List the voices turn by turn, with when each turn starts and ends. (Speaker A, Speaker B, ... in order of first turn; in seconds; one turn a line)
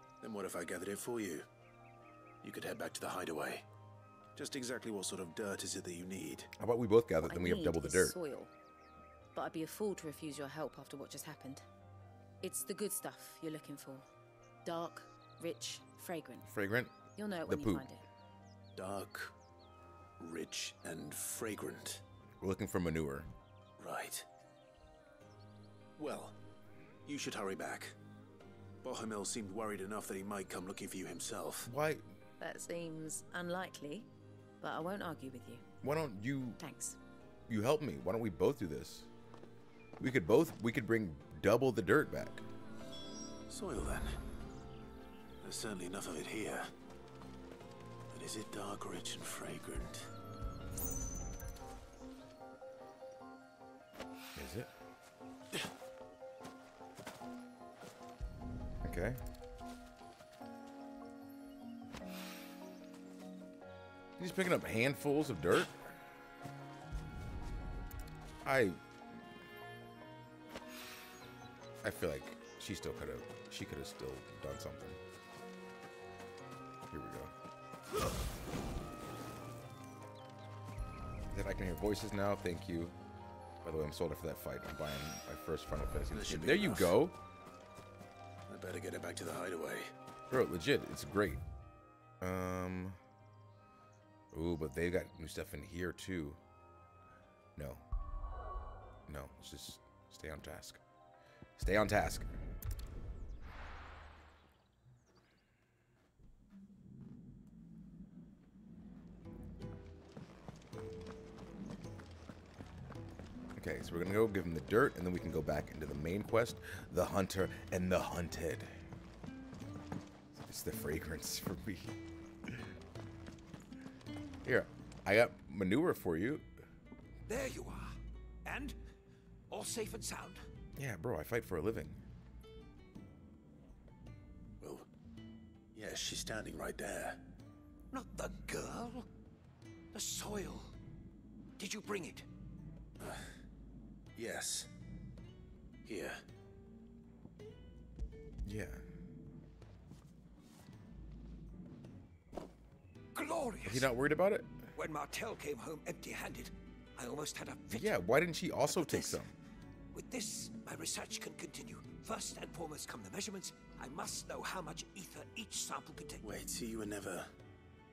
Speaker A: 0.2-1.4
Speaker A: 2.4-3.6
Speaker A: 4.3-6.5
Speaker B: 6.6-8.2
Speaker C: 7.2-8.5
Speaker C: 9.3-11.6
Speaker C: 12.4-14.1
Speaker C: 14.6-16.4
Speaker B: 16.4-17.9
Speaker C: 17.1-18.0
Speaker A: 18.7-19.3
Speaker A: 20.2-22.0
Speaker B: 22.4-23.3
Speaker A: 23.8-24.3
Speaker A: 26.0-26.4
Speaker A: 27.1-27.9
Speaker A: 28.8-31.7
Speaker B: 31.6-32.0
Speaker C: 32.4-34.1
Speaker C: 34.6-35.6
Speaker B: 35.8-36.6
Speaker C: 36.6-37.0
Speaker B: 37.5-39.1
Speaker B: 40.0-42.4
Speaker A: 43.5-44.2
Speaker A: 45.4-46.7
Speaker A: 48.1-50.1
Speaker B: 54.4-54.7
Speaker B: 58.8-59.2
Speaker B: 64.2-65.8
Speaker B: 68.4-68.8
Speaker B: 71.8-75.0
Speaker B: 76.9-77.3
Speaker B: 81.3-82.9
Speaker B: 83.6-87.2
Speaker A: 86.1-87.0
Speaker A: 88.5-89.9
Speaker B: 90.3-91.4
Speaker B: 92.2-93.0
Speaker B: 94.3-96.4
Speaker B: 97.6-97.8
Speaker B: 99.1-100.8
Speaker B: 101.6-102.3
Speaker B: 113.6-118.7
Speaker B: 120.3-121.9
Speaker B: 124.4-126.5
Speaker D: 127.3-128.8
Speaker D: 129.5-130.4
Speaker B: 130.8-132.0
Speaker A: 134.6-134.9
Speaker A: 135.7-137.2
Speaker D: 137.9-139.1
Speaker D: 139.9-140.7
Speaker D: 141.6-142.3
Speaker A: 143.0-143.3
Speaker A: 144.2-144.7
Speaker A: 145.8-146.2
Speaker B: 148.4-148.8
Speaker D: 153.1-153.9
Speaker B: 153.6-154.5
Speaker D: 154.7-157.9
Speaker B: 157.7-159.3
Speaker D: 158.7-159.2
Speaker D: 159.9-166.3
Speaker A: 166.2-167.3